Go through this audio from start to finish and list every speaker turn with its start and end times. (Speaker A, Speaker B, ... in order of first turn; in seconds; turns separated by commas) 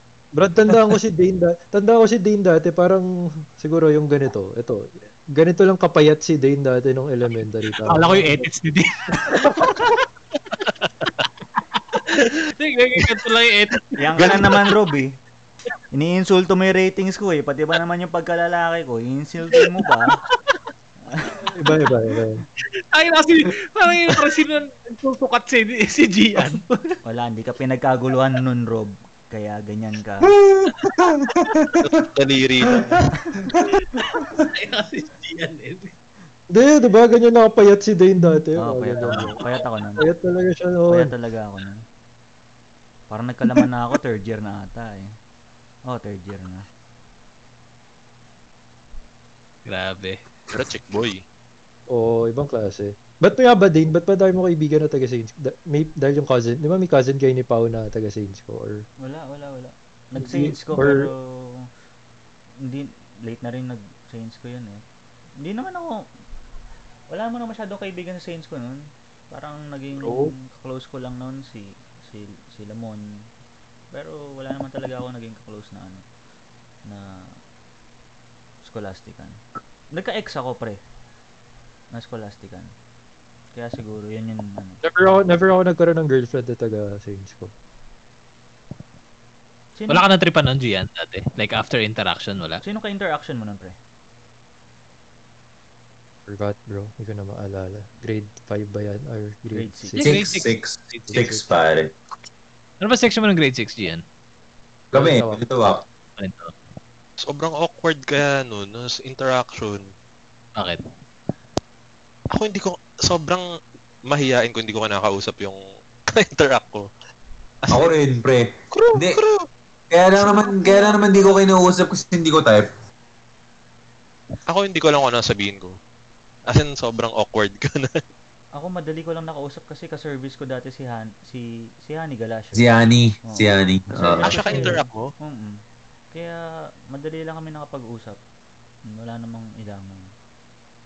Speaker A: 0.3-3.1, Speaker A: 3.6-8.5, Speaker B: 7.9-10.0, Speaker B: 10.8-11.1, Speaker B: 11.7-14.7, Speaker C: 13.0-13.2, Speaker D: 14.0-15.2, Speaker C: 14.2-14.4, Speaker D: 15.9-20.2, Speaker D: 21.1-21.5, Speaker A: 21.6-22.4, Speaker B: 22.9-26.9, Speaker D: 27.1-30.3, Speaker E: 30.3-31.9, Speaker C: 31.8-33.1, Speaker E: 32.7-33.0, Speaker B: 33.5-35.9, Speaker A: 36.5-39.4, Speaker D: 38.6-40.1, Speaker A: 40.0-41.1, Speaker D: 40.9-41.9, Speaker D: 43.1-45.1, Speaker D: 45.9-46.6, Speaker B: 49.7-50.2, Speaker C: 50.5-51.2, Speaker A: 51.9-58.9, Speaker D: 59.0-61.7, Speaker A: 60.2-61.1, Speaker D: 62.6-64.8, Speaker D: 65.4-66.1, Speaker D: 67.1-73.3, Speaker D: 73.9-76.1, Speaker D: 76.9-77.3, Speaker D: 78.6-79.4, Speaker D: 79.9-80.8, Speaker D: 81.9-82.7, Speaker D: 83.5-84.8, Speaker A: 84.8-87.5, Speaker D: 89.8-90.0, Speaker B: 89.9-92.6, Speaker D: 92.6-93.8, Speaker A: 96.3-100.2, Speaker D: 99.5-100.0, Speaker B: 100.0-101.2, Speaker E: 100.0-101.9, Speaker A: 101.1-101.4, Speaker B: 102.8-104.0, Speaker E: 104.9-105.8, Speaker A: 104.9-105.4, Speaker B: 106.2-106.5, Speaker C: 107.2-109.9, Speaker B: 110.6-110.8, Speaker C: 112.3-113.5, Speaker C: 114.1-116.9, Speaker C: 117.6-117.9, Speaker E: 117.7-119.2, Speaker C: 118.7-119.5, Speaker E: 119.9-122.7, Speaker B: 120.4-121.1, Speaker C: 124.5-125.8, Speaker C: 126.5-128.0, Speaker D: 128.6-132.7, Speaker E: 132.6-134.7, Speaker D: 133.3-138.2, Speaker C: 134.2-135.1, Speaker D: 138.9-140.1